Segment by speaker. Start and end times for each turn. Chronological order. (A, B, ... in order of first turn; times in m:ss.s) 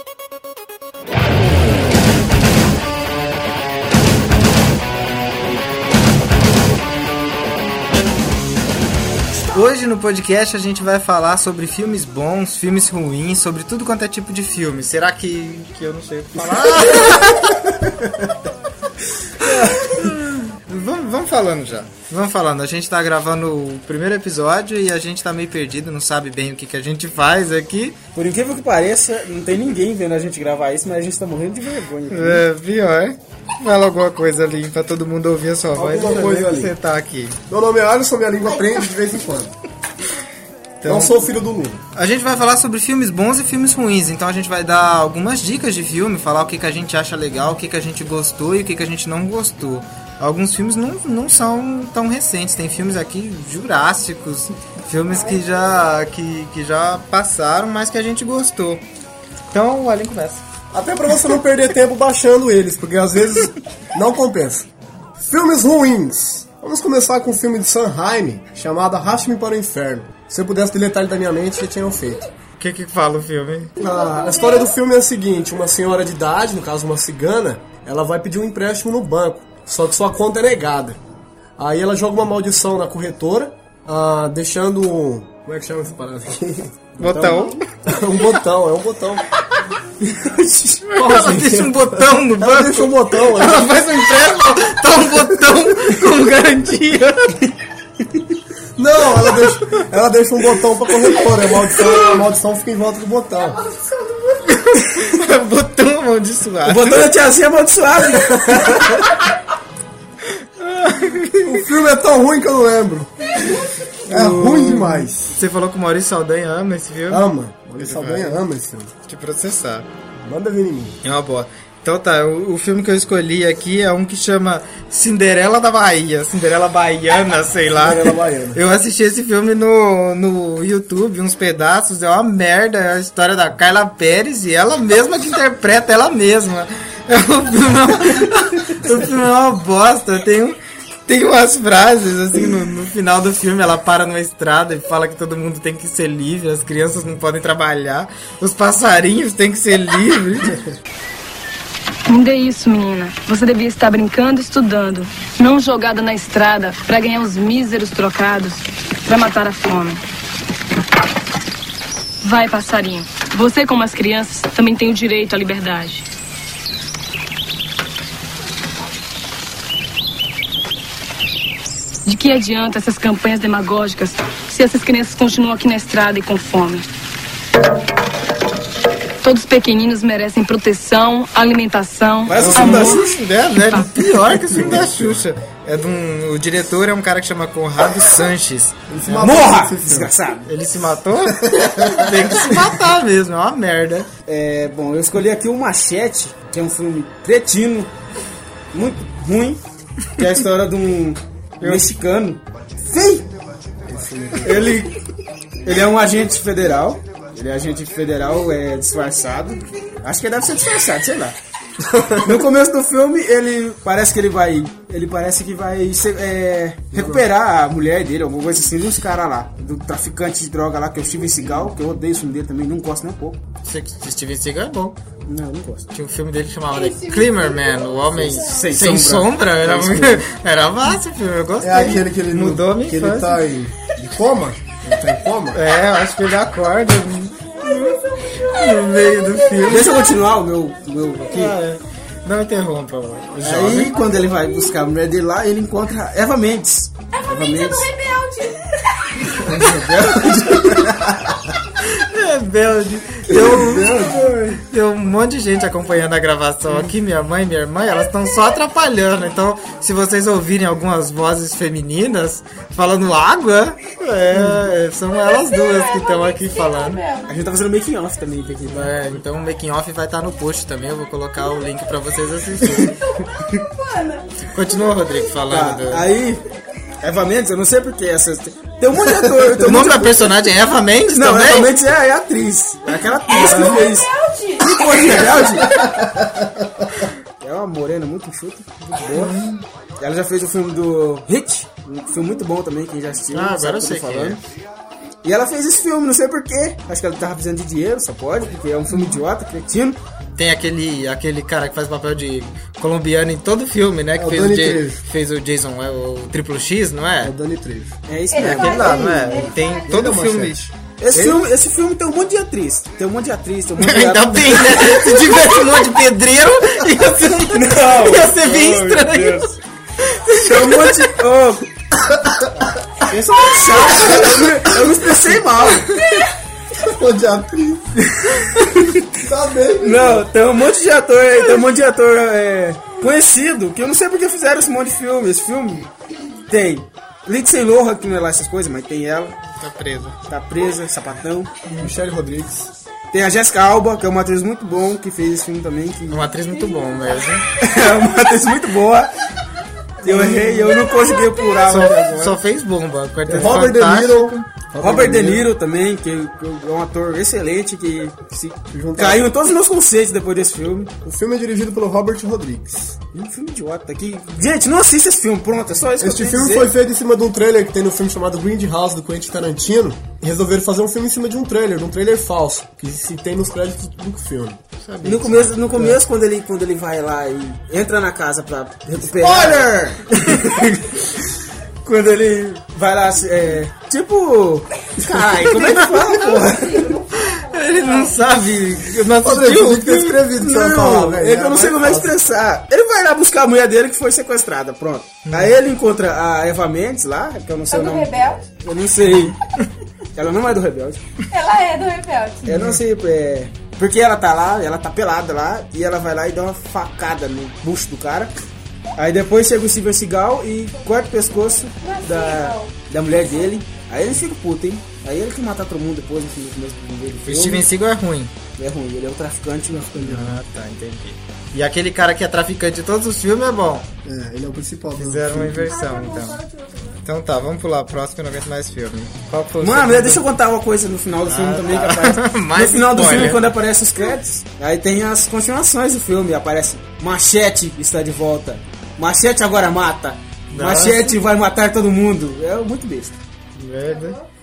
0:09.5-0:17.8 A
0:16.5-0:18.2 B
0:19.4-0:28.0 A
0:28.1-0:32.4 C
0:32.1-0:37.4 A
0:35.7-0:36.7 B
0:37.5-0:39.6 B
0:40.8-0:41.3 A
0:40.8-0:41.8 B
0:41.9-0:58.8 A
0:59.5-1:00.4 A
1:00.7-1:12.2 B
1:12.6-1:13.7 A
1:13.8-1:21.0 B
1:13.8-1:14.6 D
1:21.6-1:29.2 B
1:27.0-1:27.6 A
1:30.0-1:30.8 C
1:30.8-1:37.5 A
1:30.9-1:33.8 B
1:38.0-1:38.4 C
1:38.8-1:43.6 B
1:43.6-1:44.4 D
1:44.5-1:47.1 A
1:46.6-1:49.0 C
1:50.4-1:51.7 A
1:51.4-1:53.4 B
1:54.0-1:58.4 A
1:54.1-1:55.3 B
1:57.1-1:58.9 B
1:59.1-1:59.9 A
2:00.2-2:01.0 B
2:01.0-2:30.8 A
2:07.7-2:08.6 B
2:32.1-2:40.0 E
2:42.2-2:46.1 E
2:52.0-2:56.9 E
2:59.2-3:04.0 E
3:02.2-3:03.0 C
3:02.4-3:03.0 B
3:02.5-3:09.4 A
3:04.4-3:05.2 B
3:08.9-3:10.1 B
3:09.1-3:10.5 C
3:10.5-3:14.1 A
3:11.4-3:12.3 B
3:14.3-3:17.9 C
3:18.7-3:19.6 C
3:20.2-3:23.3 C
3:23.9-3:24.8 B
3:24.4-3:25.0 C
3:25.6-3:31.4 C
3:32.1-3:43.4 C
3:36.9-3:37.2 B
3:43.6-3:45.0 A
3:45.3-3:45.9 C
3:45.9-3:53.4 A
3:46.7-3:48.7 D
3:48.4-3:50.2 C
3:51.6-3:55.6 B
3:55.5-4:00.0 A
3:57.6-4:00.1 D
3:59.6-4:01.6 C
4:01.3-4:03.9 A
4:03.4-4:07.9 C
4:03.9-4:04.8 D
4:07.1-4:09.5 D
4:09.4-4:10.8 C
4:10.2-4:10.7 A
4:10.8-4:11.3 B
4:11.8-4:27.0 A
4:13.3-4:14.6 B
4:13.8-4:14.5 C
4:18.1-4:18.5 D
4:24.3-4:24.6 C
4:25.2-4:27.4 D
4:27.3-4:29.2 C
4:28.7-4:33.0 A
4:33.0-4:35.1 D
4:34.5-4:36.1 A
4:35.5-4:36.4 C
4:37.0-4:40.3 C
4:39.6-4:41.7 A
4:41.1-4:45.7 C
4:43.3-4:45.5 D
4:45.7-4:46.9 B
4:47.4-4:49.4 C
4:49.1-4:49.6 A
4:50.0-4:54.4 C
4:53.3-4:54.4 A
4:55.2-5:00.0 C
5:00.4-5:07.3 A
5:04.1-5:05.0 B
5:07.2-5:08.0 B
5:08.1-5:08.9 C
5:08.3-5:10.1 D
5:08.4-5:10.6 A
5:08.8-5:11.4 B
5:11.0-5:15.0 C
5:13.8-5:21.0 A
5:17.3-5:19.5 C
5:18.4-5:19.2 B
5:20.3-5:21.7 C
5:22.0-5:22.7 B
5:23.0-5:26.0 C
5:24.1-5:24.9 B
5:26.7-5:28.0 B
5:28.2-5:29.1 C
5:29.2-5:30.3 B
5:29.8-5:35.9 C
5:36.5-5:39.4 C
5:39.6-5:40.2 A
5:40.3-5:41.5 C
5:41.8-5:42.7 B
5:43.1-5:46.3 C
5:46.1-5:47.4 A
5:47.6-5:49.1 C
5:50.0-5:50.8 A
5:50.0-5:52.4 C
5:51.6-5:54.4 A
5:53.3-5:55.5 B
5:53.3-5:53.6 C
5:54.8-6:00.9 C
5:58.7-5:59.3 B
6:01.0-6:03.0 B
6:03.1-6:06.7 C
6:06.0-6:14.6 B
6:14.8-6:15.8 A
6:15.0-6:21.2 C
6:19.1-6:20.1 B
6:21.8-6:27.0 C
6:25.8-6:28.2 D
6:27.2-6:30.2 A
6:29.2-6:32.2 B
6:30.4-6:39.4 C
6:35.3-6:35.6 A
6:37.7-6:38.4 D
6:40.1-6:41.0 C
6:41.3-6:42.4 D
6:42.4-6:42.8 A
6:42.4-6:48.3 C
6:49.0-6:57.7 C
6:51.8-6:52.7 D
6:57.2-6:58.3 A
6:58.6-7:00.3 C
7:00.0-7:03.9 A
7:04.0-7:05.8 B
7:05.0-7:06.4 A
7:05.7-7:07.0 D
7:07.0-7:10.2 A
7:09.6-7:23.2 C
7:11.3-7:13.4 A
7:20.5-7:21.2 A
7:23.6-7:24.2 A
7:23.9-7:24.2 D